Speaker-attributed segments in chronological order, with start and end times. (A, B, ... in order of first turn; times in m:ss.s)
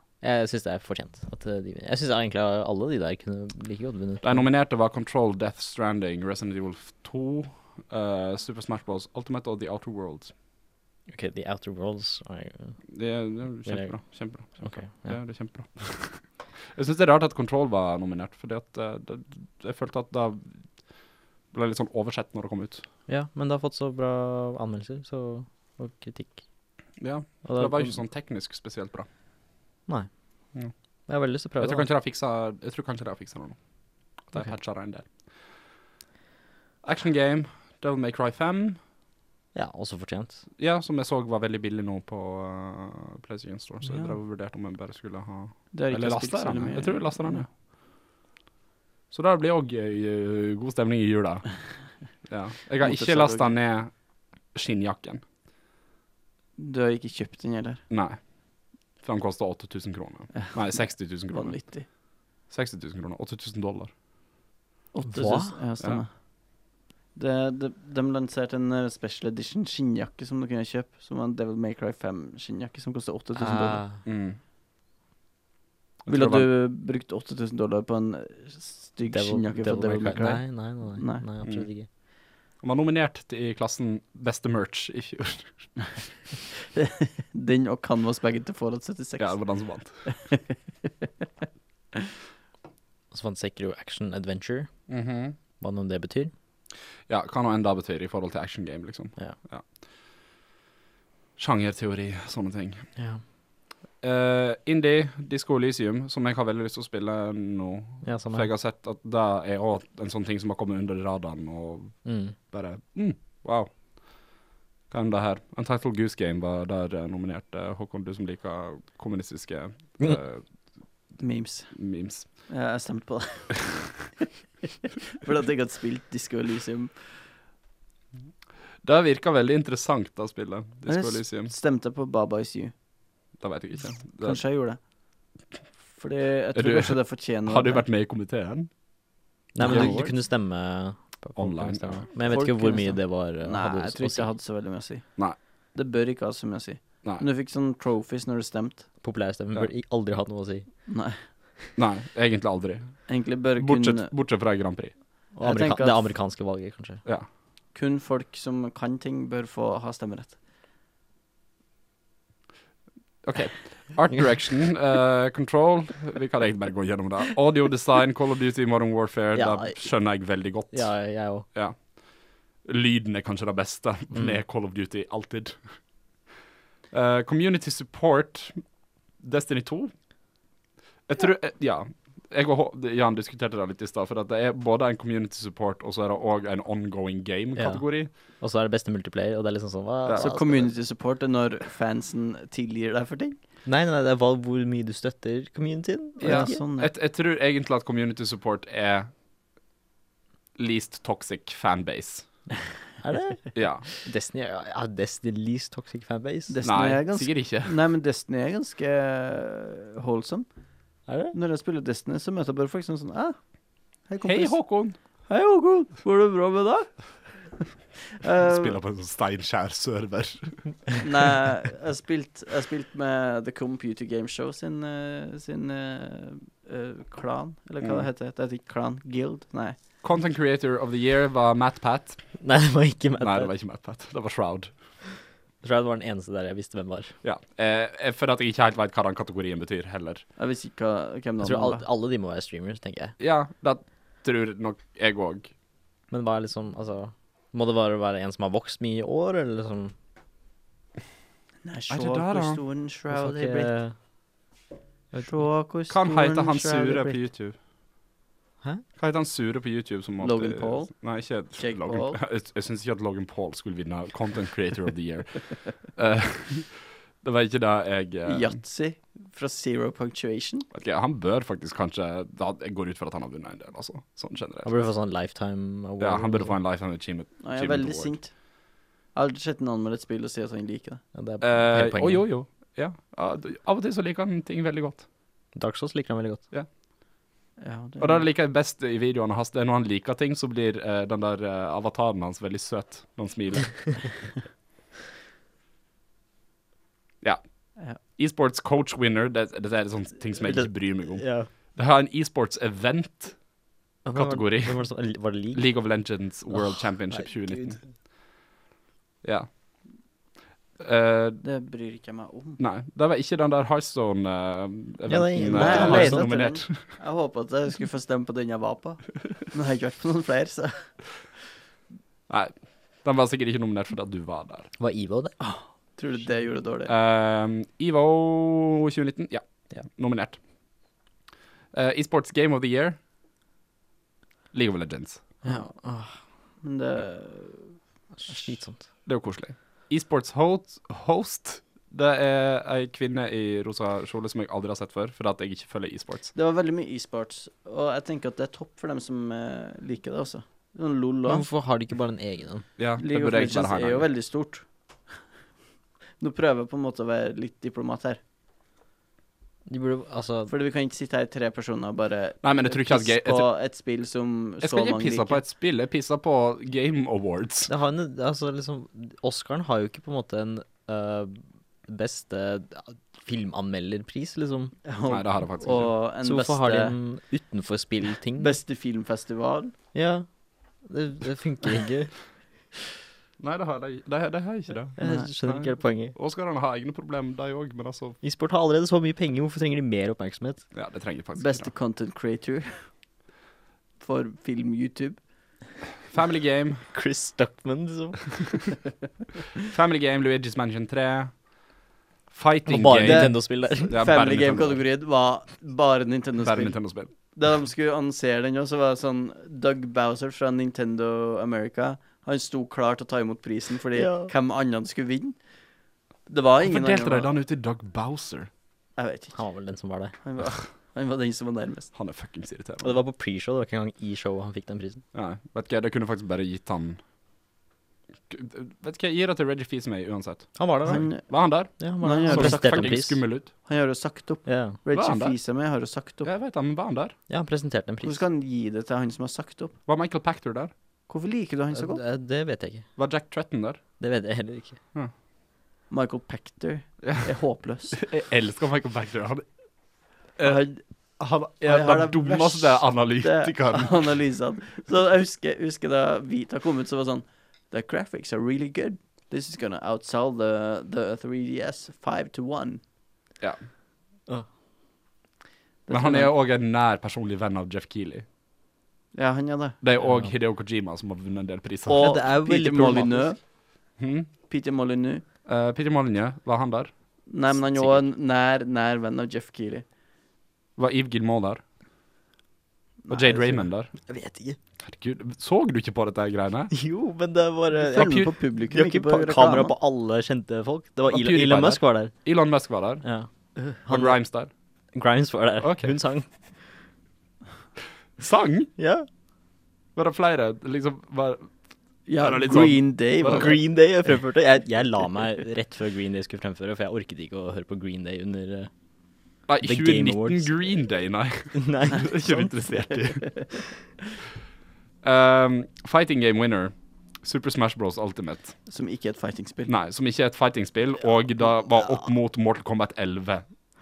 0:00.2-0:04.5 A
0:04.2-0:10.3 B
0:11.1-0:12.8 A
0:12.9-0:20.8 B
0:13.6-0:15.2 A
0:21.5-0:22.8 B
0:23.1-0:26.4 A
0:27.0-0:29.1 B
0:27.4-0:28.0 A
0:31.1-0:31.9 A
0:31.6-0:33.6 B
0:34.2-0:35.3 B
0:36.8-0:38.8 B
0:39.5-0:40.4 A
0:40.6-0:47.5 B
0:43.8-0:44.2 C
0:45.7-0:47.5 C
0:49.1-0:51.6 B
0:52.2-0:55.2 B
0:52.8-0:53.5 C
0:56.6-0:57.8 C
0:57.9-0:58.3 B
0:59.0-1:01.6 B
1:00.4-1:01.9 C
1:02.5-1:03.9 B
1:04.9-1:06.2 C
1:05.1-1:05.6 A
1:07.2-1:13.8 C
1:13.4-1:14.0 A
1:14.0-1:14.4 B
1:16.0-1:16.5 B
1:16.1-1:21.2 C
1:19.1-1:21.9 A
1:21.4-1:21.7 B
1:22.6-1:25.7 B
1:26.7-1:30.5 C
1:29.2-1:30.1 B
1:33.1-1:34.7 A
1:34.9-1:35.4 B
1:35.6-1:36.3 A
1:37.1-1:39.7 B
1:41.4-1:42.9 B
1:43.0-1:43.2 A
1:44.0-1:53.7 B
1:48.0-1:48.5 A
1:52.0-1:52.4 A
1:54.9-2:00.4 B
2:01.2-2:04.1 C
2:01.8-2:02.3 B
2:05.2-2:07.2 C
2:08.8-2:11.5 B
2:10.9-2:12.7 C
2:13.4-2:14.4 B
2:14.1-2:14.8 C
2:16.0-2:17.8 C
2:16.5-2:18.7 B
2:19.5-2:24.3 A
2:19.6-2:20.1 C
2:19.6-2:20.1 B
2:21.4-2:22.1 B
2:22.2-2:28.9 C
2:29.0-2:30.7 A
2:30.9-2:31.2 C
2:31.8-2:34.9 B
2:33.1-2:34.1 C
2:35.4-2:37.0 A
2:35.4-2:36.1 C
2:37.7-2:40.4 C
2:43.2-2:52.0 B
2:49.3-2:49.9 A
2:50.7-2:51.5 A
2:52.6-2:55.6 B
2:56.9-2:58.7 B
2:59.2-2:59.9 B
3:01.1-3:08.1 B
3:07.6-3:10.7 A
3:10.0-3:10.3 B
3:10.2-3:13.4 C
3:13.7-3:16.6 A
3:16.2-3:19.1 B
3:16.2-3:16.9 C
3:20.6-3:22.3 B
3:23.0-3:26.6 A
3:23.5-3:23.9 B
3:26.5-3:30.5 C
3:26.6-3:27.7 B
3:31.1-3:31.4 A
3:31.3-3:33.4 C
3:34.1-3:38.8 C
3:34.2-3:35.0 B
3:38.4-3:41.0 B
3:41.0-3:49.8 C
3:47.8-3:48.1 B
3:50.0-3:52.4 B
3:52.4-3:53.5 A
3:53.2-3:54.8 B
3:55.6-3:57.2 A
3:57.2-4:00.2 B
4:00.4-4:01.8 C
4:01.4-4:03.2 A
4:03.2-4:05.5 B
4:06.1-4:09.9 A
4:11.6-4:13.7 C
4:11.9-4:12.6 B
4:13.1-4:14.0 A
4:15.1-4:15.4 A
4:15.2-4:17.3 C
4:15.9-4:17.6 B
4:19.0-4:28.6 B
4:20.2-4:22.2 C
4:28.3-4:30.7 C
4:30.7-4:34.7 B
4:34.6-4:36.6 A
4:36.0-4:38.2 B
4:37.4-4:38.4 C
4:39.1-4:41.0 C
4:41.1-4:42.2 A
4:41.4-4:45.1 B
4:45.5-4:46.4 A
4:47.6-4:48.3 C
4:48.0-4:53.9 B
4:57.2-5:03.4 B
5:00.4-5:01.5 A
5:04.0-5:06.0 A
5:04.1-5:07.8 B
5:06.5-5:07.9 A
5:09.2-5:09.6 B
5:10.8-5:11.4 B
5:11.4-5:12.6 C
5:12.6-5:16.9 B
5:15.1-5:16.3 A
5:15.5-5:21.0 C
5:22.3-5:24.7 B
5:24.8-5:25.4 A
5:25.4-5:26.9 C
5:26.9-5:30.4 B
5:31.7-5:33.0 B
5:34.5-5:35.2 B
5:35.4-5:36.1 A
5:36.6-5:38.6 C
5:38.2-5:38.9 A
5:39.0-5:46.3 B
5:46.3-5:51.5 C
5:51.3-5:52.7 A
5:52.8-5:54.1 B
5:53.0-5:54.7 C
5:56.2-5:58.2 C
5:59.7-6:00.5 A
6:00.5-6:05.4 C
6:02.4-6:03.5 B
6:04.6-6:07.7 B
6:07.7-6:14.8 A
6:14.8-6:17.0 C
6:15.1-6:15.9 B
6:16.2-6:18.6 A
6:18.4-6:19.7 C
6:19.9-6:20.3 A
6:20.8-6:22.2 A
6:23.4-6:28.2 B
6:25.0-6:26.2 A
6:25.0-6:25.3 C
6:28.2-6:30.7 A
6:30.7-6:31.7 B
6:31.4-6:32.9 C
6:34.0-6:35.2 C
6:36.1-6:36.9 B
6:36.9-6:38.7 A
6:39.7-6:41.4 B
6:42.3-6:44.8 B
6:42.7-6:44.0 A
6:43.0-6:55.4 C
6:46.4-6:47.1 B
6:53.9-6:54.3 A
6:56.3-6:57.3 C
6:56.6-6:58.5 B
6:59.0-6:59.4 C
6:59.3-7:00.2 A
7:00.2-7:01.9 C
7:01.9-7:02.9 B
7:02.8-7:05.0 A
7:05.1-7:07.0 B
7:08.3-7:13.5 B
7:10.6-7:11.1 A
7:10.8-7:16.3 C
7:11.8-7:13.2 A
7:14.5-7:14.8 A
7:14.9-7:15.4 B
7:16.2-7:17.2 B
7:17.3-7:18.2 A
7:18.0-7:19.8 C
7:19.9-7:20.7 B
7:21.1-7:22.0 C
7:21.7-7:22.9 A
7:23.0-7:23.8 B
7:24.0-7:24.8 A
7:25.9-7:28.0 C
7:28.0-7:29.5 B
7:30.4-7:30.6 B
7:30.4-7:30.8 C
7:31.2-7:34.0 B
7:31.6-7:42.8 C
7:45.9-7:46.3 C
7:45.9-7:48.3 B
7:49.1-7:49.8 C
7:49.8-7:52.1 B
7:50.0-7:50.3 A
7:51.9-7:53.4 C
7:51.9-7:53.3 A
7:54.0-7:54.3 B
7:54.5-7:55.2 C
7:55.4-7:56.9 B
7:57.3-7:59.8 C
7:57.5-7:58.1 A
8:00.8-8:01.6 B
8:03.0-8:03.7 C
8:03.1-8:03.9 B
8:03.9-8:04.6 A
8:04.8-8:06.7 B
8:06.7-8:12.2 A
8:07.7-8:09.7 C
8:07.9-8:08.3 B
8:11.1-8:13.0 B
8:13.0-8:14.2 A
8:13.8-8:14.5 B
8:14.9-8:16.5 A
8:15.6-8:16.0 B
8:18.2-8:18.7 B
8:18.8-8:19.1 A
8:20.0-8:21.6 B
8:22.1-8:23.6 C
8:22.2-8:23.6 B
8:23.2-8:28.7 A
8:29.5-8:33.3 B
8:29.6-8:30.6 A
8:31.6-8:32.5 A
8:35.0-8:38.6 B
8:38.7-8:39.7 C
8:39.7-8:43.4 B